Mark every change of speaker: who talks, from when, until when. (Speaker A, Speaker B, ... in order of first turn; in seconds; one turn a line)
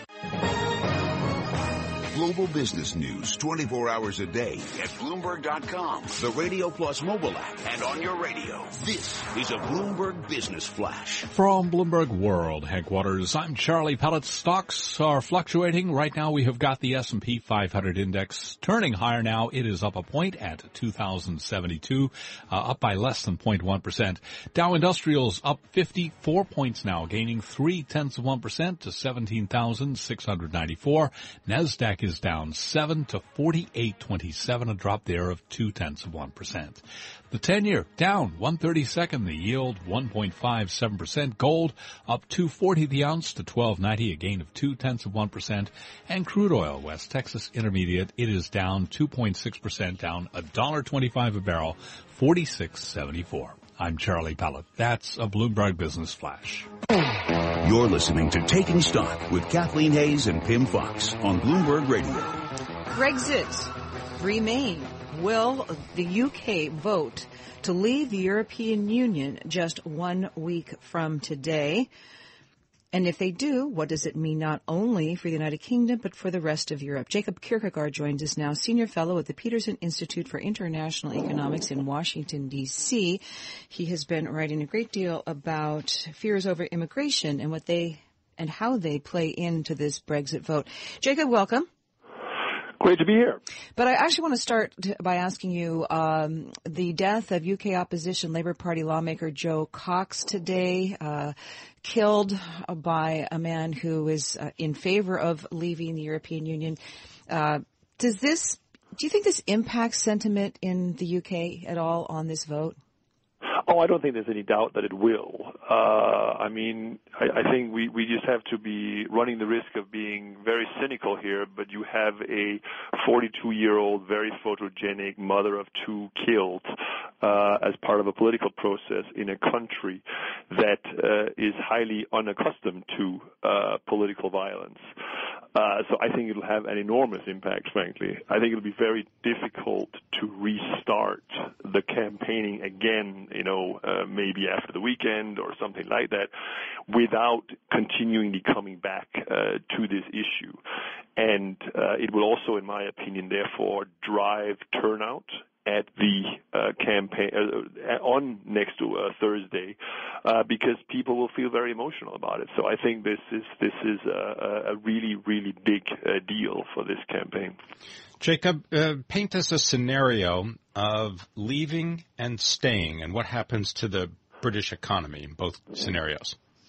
Speaker A: 2.1-11.3
Speaker B: 11.3-56.7
Speaker A: 57.6-62.4
Speaker C: 62.9-71.9
Speaker C: 72.9-91.7
Speaker D: 92.8-93.4
Speaker C: 93.8-106.8
Speaker C: 107.3-112.8
Speaker D: 113.7-126.7
Speaker D: 127.2-134.8
Speaker D: 135.5-146.3
Speaker D: 146.9-150.6
Speaker D: 151.2-167.6
Speaker E: 168.2-176.3